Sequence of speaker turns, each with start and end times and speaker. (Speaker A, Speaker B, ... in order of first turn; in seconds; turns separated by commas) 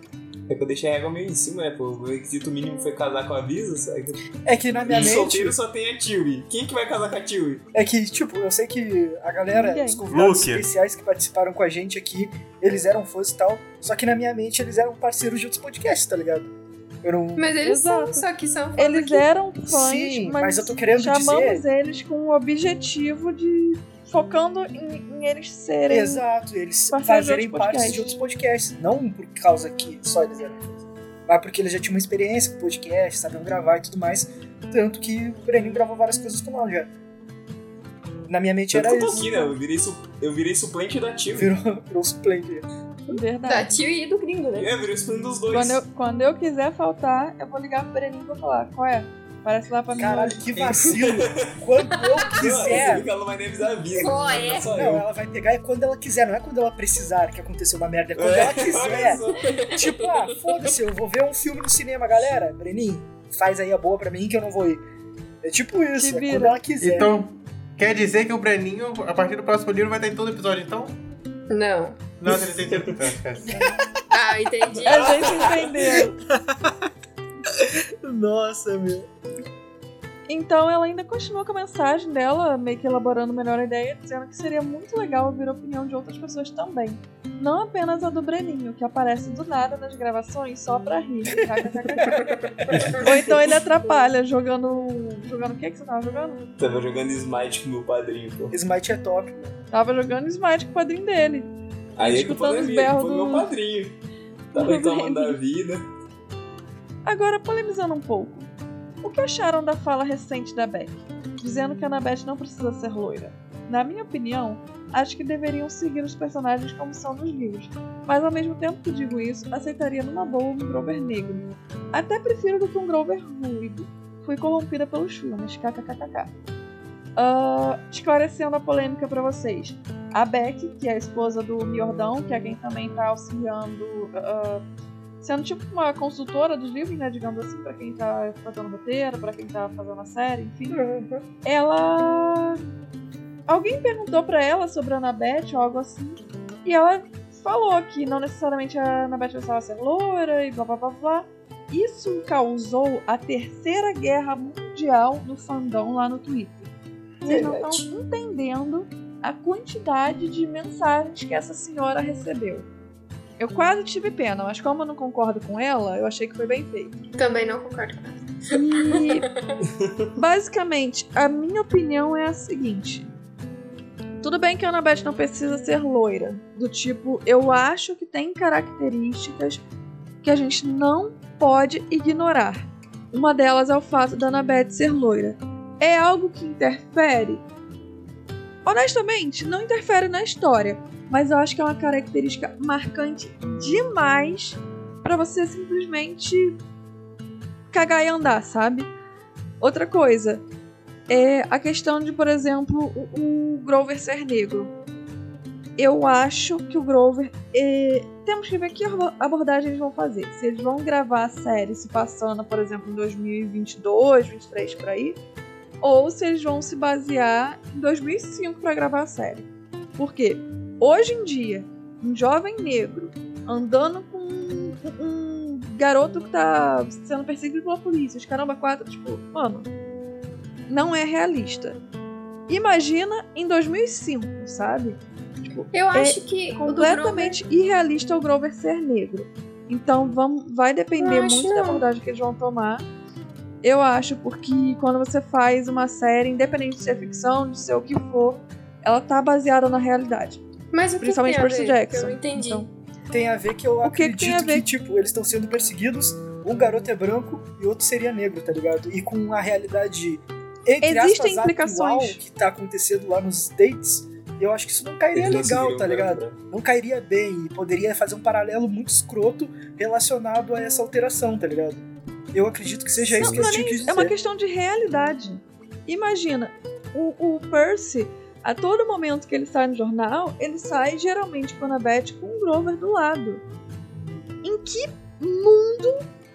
Speaker A: 0.5-4.2, Speaker B: 4.5-5.6, Speaker A: 4.9-7.6, Speaker B: 7.7-16.5, Speaker C: 9.5-10.0, Speaker D: 10.1-10.6, Speaker B: 17.0-17.5, Speaker E: 17.4-19.3, Speaker C: 17.6-18.2, Speaker C: 18.8-26.2, Speaker B: 19.7-21.6, Speaker B: 25.9-36.9, Speaker C: 26.9-28.2, Speaker B: 38.3-39.5, Speaker A: 38.7-41.5, Speaker C: 39.2-39.5, Speaker B: 41.4-42.7, Speaker E: 43.1-44.8, Speaker C: 43.1-43.8, Speaker A: 44.6-45.8, Speaker C: 45.5-50.4, Speaker B: 50.0-53.1, Speaker A: 50.9-51.5, Speaker A: 52.4-55.1, Speaker E: 54.0-54.8, Speaker B: 54.7-64.8, Speaker A: 58.2-59.7, Speaker E: 59.6-60.1, Speaker B: 65.4-67.2, Speaker C: 66.0-66.6, Speaker D: 66.8-71.0, Speaker E: 71.5-72.0, Speaker D: 72.2-73.6, Speaker E: 74.1-75.3, Speaker C: 74.8-76.2, Speaker A: 74.9-75.6, Speaker B: 77.7-79.1, Speaker C: 80.3-92.3, Speaker E: 92.2-92.7, Speaker C: 93.0-96.4, Speaker A: 96.6-98.6, Speaker B: 98.5-99.6, Speaker C: 99.7-103.5, Speaker A: 102.0-104.0, Speaker C: 104.5-105.4, Speaker A: 104.5-105.9, Speaker C: 107.0-108.5, Speaker C: 109.0-126.3, Speaker C: 127.2-134.6, Speaker C: 135.2-140.8, Speaker E: 140.8-141.2, Speaker C: 141.4-142.6, Speaker C: 143.5-156.7, Speaker E: 157.2-157.9, Speaker C: 157.2-162.7, Speaker C: 163.4-167.0, Speaker E: 167.2-169.6, Speaker C: 168.5-169.3, Speaker C: 170.2-173.1, Speaker C: 174.2-179.6, Speaker C: 180.2-187.4, Speaker C: 188.6-196.6, Speaker C: 197.7-198.9, Speaker C: 199.6-200.4, Speaker C: 201.1-204.7, Speaker C: 205.8-215.2, Speaker C: 215.8-229.7, Speaker C: 230.7-231.8, Speaker C: 232.5-242.9, Speaker E: 235.7-237.4, Speaker E: 241.0-241.8, Speaker C: 243.6-250.4, Speaker E: 250.7-252.7, Speaker C: 251.0-252.7, Speaker B: 253.1-274.1, Speaker C: 253.8-254.7, Speaker C: 260.8-262.2, Speaker A: 265.1-266.4, Speaker C: 273.1-283.4, Speaker A: 273.2-273.5, Speaker C: 284.4-286.0